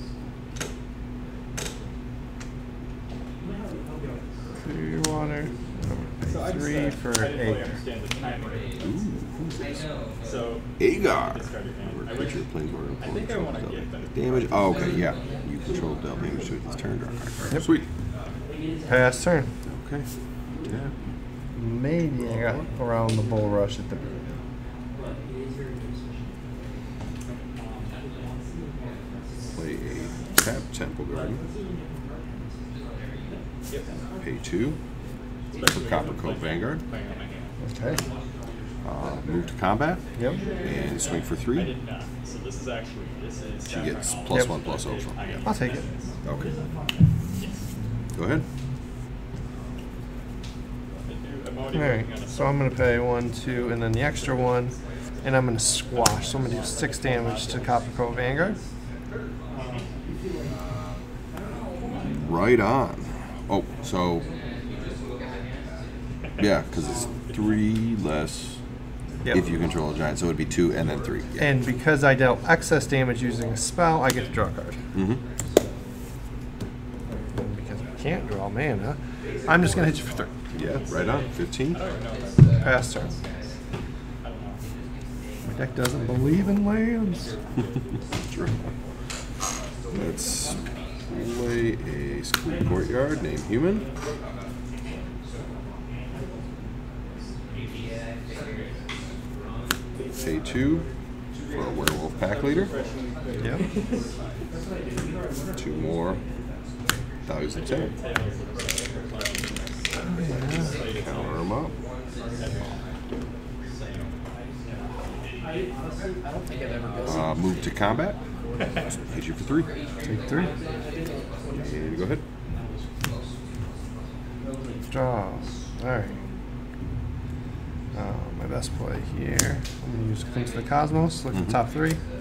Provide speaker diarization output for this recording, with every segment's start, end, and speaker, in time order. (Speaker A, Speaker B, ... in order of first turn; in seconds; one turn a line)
Speaker A: 4.6-7.8
Speaker B: 6.4-8.9
Speaker C: 8.8-9.9
Speaker B: 10.2-12.5
Speaker C: 10.8-17.9
Speaker B: 13.0-15.0
Speaker A: 18.9-19.5
Speaker C: 19.7-20.1
Speaker C: 20.7-20.9
Speaker A: 21.5-24.4
Speaker C: 22.2-22.6
Speaker B: 27.5-28.0
Speaker C: 29.5-31.4
Speaker C: 34.2-34.8
Speaker B: 35.5-37.6
Speaker C: 35.6-36.8
Speaker A: 37.6-38.0
Speaker C: 38.8-40.0
Speaker A: 40.2-40.4
Speaker C: 40.6-41.7
Speaker B: 41.5-46.1
Speaker C: 43.7-45.2
Speaker A: 45.4-45.9
Speaker C: 46.2-46.5
Speaker C: 48.1-48.5
Speaker B: 51.1-52.6
Speaker A: 51.7-58.6
Speaker B: 57.1-57.6
Speaker C: 62.0-64.3
Speaker C: 66.4-68.6
Speaker A: 69.3-69.6
Speaker C: 69.3-71.5
Speaker A: 71.4-74.8
Speaker C: 75.0-75.2
Speaker A: 77.3-80.4
Speaker C: 80.5-81.8
Speaker B: 80.9-83.2
Speaker A: 82.6-83.2
Speaker B: 84.2-84.6
Speaker A: 85.5-87.3
Speaker B: 87.1-88.5
Speaker C: 88.3-88.6
Speaker C: 89.9-93.9
Speaker C: 100.2-100.9
Speaker C: 101.5-102.7
Speaker B: 102.2-104.1
Speaker C: 105.5-106.2
Speaker C: 107.3-107.9
Speaker B: 107.5-111.5
Speaker A: 110.2-110.7
Speaker C: 111.0-111.7
Speaker B: 112.4-112.7
Speaker B: 113.7-114.0
Speaker C: 117.0-118.2
Speaker C: 118.8-119.7
Speaker A: 120.1-120.5
Speaker C: 121.5-122.2
Speaker A: 124.9-126.2
Speaker A: 127.9-132.0